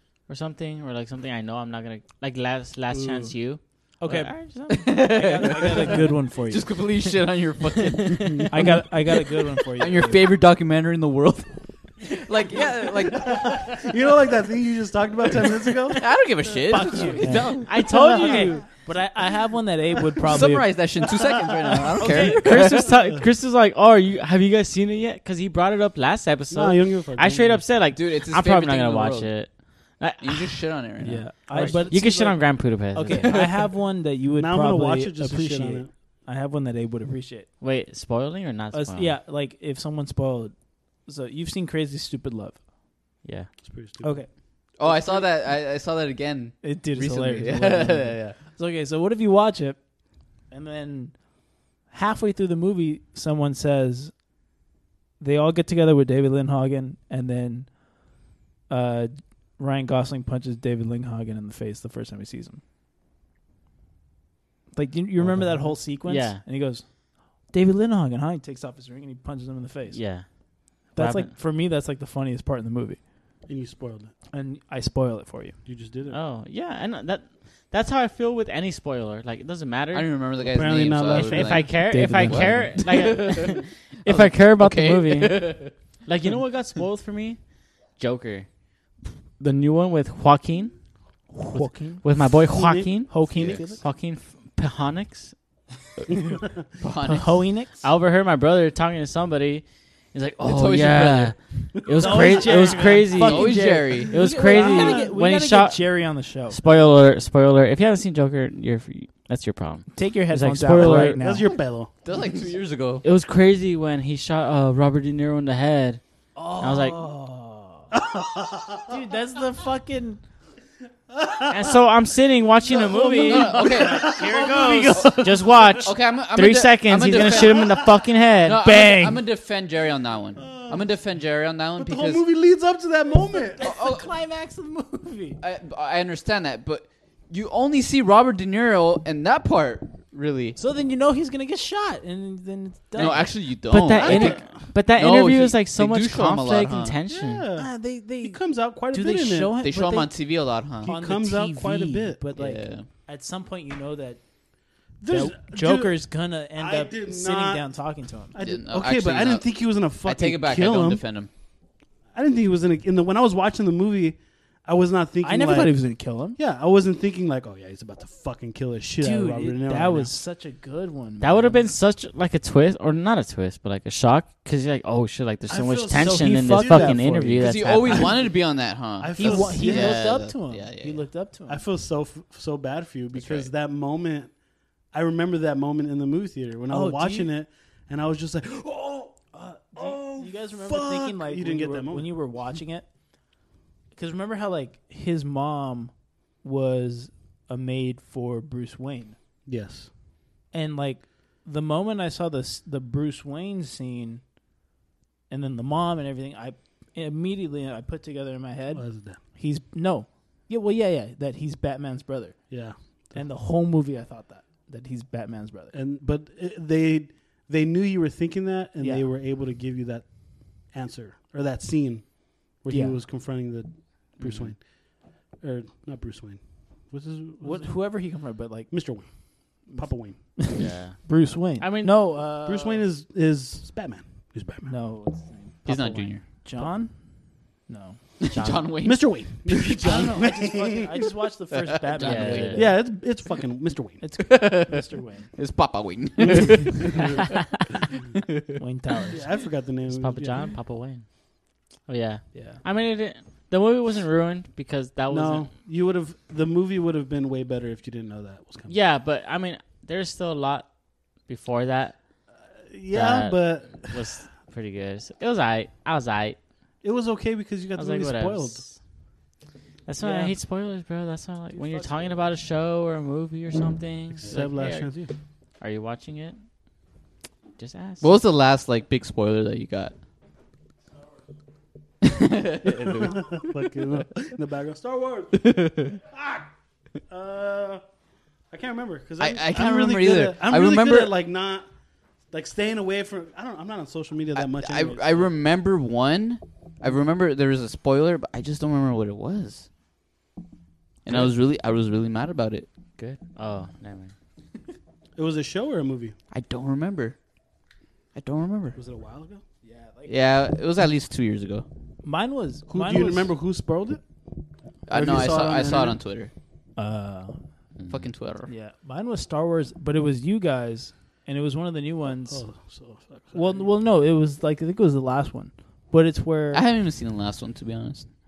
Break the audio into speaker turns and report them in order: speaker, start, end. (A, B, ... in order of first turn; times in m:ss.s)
0:00.3-0:05.0 A
0:04.0-0:04.3 B
0:04.7-0:13.5 C
0:05.0-0:06.7 B
0:05.4-0:06.1 D
0:08.0-0:08.4 A
0:08.3-0:08.7 D
0:08.5-0:10.2 B
0:13.2-0:16.0 D
0:16.0-0:17.7 C
0:16.6-0:20.8 B
0:17.1-0:17.3 D
0:17.6-0:18.6 A
0:17.9-0:18.5 D
0:20.2-0:22.9 C
0:22.0-0:22.8 B
0:22.1-0:30.6 A
0:26.5-0:27.6 D
0:27.9-0:29.3 C
0:30.2-0:31.9 C
0:31.0-0:37.5 B
0:31.5-0:33.5 A
0:31.5-0:32.3 D
0:34.3-0:36.0 D
0:37.6-0:39.2 A
0:38.7-0:42.6 B
0:43.2-0:43.5 A
0:43.6-0:44.2 D
0:44.0-0:45.2 B
0:44.8-0:48.4 C
0:46.6-0:49.8 B
0:50.5-0:51.2 B
0:51.9-0:54.1 B
0:55.2-0:57.8 B
0:58.7-1:02.6 B
1:04.7-1:06.9 B
1:06.0-1:06.4 A
1:07.5-1:10.0 B
1:09.9-1:10.3 A
1:10.8-1:11.3 A
1:10.9-1:13.0 B
1:13.5-1:14.1 D
1:14.3-1:15.6 B
1:15.6-1:16.2 D
1:16.1-1:20.1 A
1:19.9-1:25.7 C
1:20.4-1:21.7 D
1:21.2-1:27.4 A
1:21.2-1:23.1 B
1:28.0-1:28.5 A
1:29.4-1:30.7 A
1:31.3-1:32.3 B
1:31.5-1:35.4 A
1:32.6-1:33.8 D
1:32.9-1:33.8 B
1:33.3-1:33.7 C
1:36.8-1:37.4 C
1:37.0-1:37.8 B
1:37.8-1:51.2 A
1:40.4-1:41.4 C
1:41.9-1:43.1 D
1:42.0-1:46.6 B
1:43.1-1:45.0 C
1:44.3-1:45.2 D
1:49.9-1:51.6 B
1:50.8-1:51.9 D
1:52.0-1:53.0 C
1:53.0-1:56.0 A
1:56.4-1:59.0 D
1:56.6-1:57.0 A
1:58.9-2:00.2 B
2:01.1-2:01.8 D
2:01.5-2:03.6 A
2:02.7-2:05.9 D
2:03.2-2:04.1 C
2:03.9-2:05.1 B
2:04.5-2:08.6 A
2:05.8-2:07.7 C
2:07.2-2:07.9 D
2:08.4-2:12.2 C
2:08.6-2:09.2 B
2:10.4-2:10.9 D
2:11.8-2:13.7 D
2:13.3-2:15.4 B
2:13.6-2:14.1 C
2:15.4-2:20.6 C
2:20.6-2:23.4 B
2:23.0-2:24.4 C
2:23.7-2:27.4 A
2:24.0-2:24.4 B
2:24.0-2:24.6 D
2:25.0-2:27.0 C
2:27.1-2:29.6 D
2:27.6-2:30.2 B
2:29.6-2:30.9 C
2:30.8-2:34.2 B
2:30.8-2:32.3 D
2:32.4-2:32.9 C
2:35.0-2:36.0 D
2:35.1-2:38.4 B
2:36.5-2:41.0 D
2:38.4-2:41.3 C
2:42.1-2:50.2 D
2:45.2-2:46.4 B
2:49.0-2:51.7 B
2:51.2-2:58.2 A
2:55.5-2:58.5 D
2:56.0-2:57.4 B
2:57.4-3:01.1 C
2:59.0-3:00.3 D
2:59.2-3:01.6 B
3:01.5-3:04.3 D
3:03.2-3:03.5 C
3:04.9-3:12.5 D
3:06.7-3:07.3 B
3:09.3-3:12.9 B
3:13.9-3:19.2 B
3:19.5-3:19.9 D
3:20.5-3:24.2 B
3:25.3-3:35.7 B
3:28.7-3:29.2 D
3:32.5-3:33.3 D
3:35.7-3:48.0 D
3:38.8-3:39.1 B
3:42.7-3:43.0 B
3:47.4-3:48.9 B
3:48.7-3:49.1 D
3:49.6-3:50.3 D
3:49.6-3:52.8 B
3:50.5-3:51.0 A
3:51.6-3:52.0 A
3:52.2-3:54.7 D
3:54.6-3:57.0 B
3:55.7-3:56.4 C
3:57.7-3:58.0 B
3:58.2-4:00.2 C
3:58.3-3:58.7 A
3:58.8-4:01.1 D
3:59.8-4:02.9 B
4:01.5-4:02.7 C
4:02.0-4:02.7 A
4:02.5-4:04.0 D
4:04.0-4:05.3 B
4:04.2-4:07.3 C
4:06.3-4:07.2 D
4:08.2-4:08.6 C
4:08.6-4:09.2 B
4:09.1-4:10.5 D
4:09.9-4:11.1 A
4:11.9-4:15.5 A
4:12.3-4:12.6 B
4:15.1-4:18.8 D
4:18.7-4:20.7 A
4:21.3-4:22.0 A
4:22.7-4:24.0 D
4:22.9-4:26.4 A
4:26.8-4:28.7 D
4:27.8-4:28.8 A
4:29.9-4:34.9 A
4:30.0-4:30.3 D
4:31.5-4:32.3 B
4:34.2-4:35.1 D
4:35.6-4:36.4 A
4:37.6-4:38.1 A
4:38.0-4:40.0 C
4:42.0-4:43.2 C
4:42.6-4:46.5 D
4:45.4-4:45.9 C
4:47.1-4:47.8 D
4:48.5-4:51.7 D
4:49.2-4:51.2 C
4:52.3-4:55.3 D
4:54.4-4:59.7 C
5:01.0-5:02.7 C
5:03.0-5:04.1 A
5:05.2-5:06.2 D
5:06.3-5:07.2 C
5:08.2-5:08.8 C
5:08.8-5:09.4 D
5:09.6-5:10.2 B
5:10.1-5:11.7 C
5:12.0-5:13.3 B
5:12.7-5:14.0 D
5:14.9-5:16.3 C
5:14.9-5:16.0 D
5:16.8-5:17.4 B
5:17.8-5:18.5 C
5:18.5-5:22.5 B
5:22.0-5:23.7 D
5:23.3-5:26.6 B
5:26.5-5:28.1 C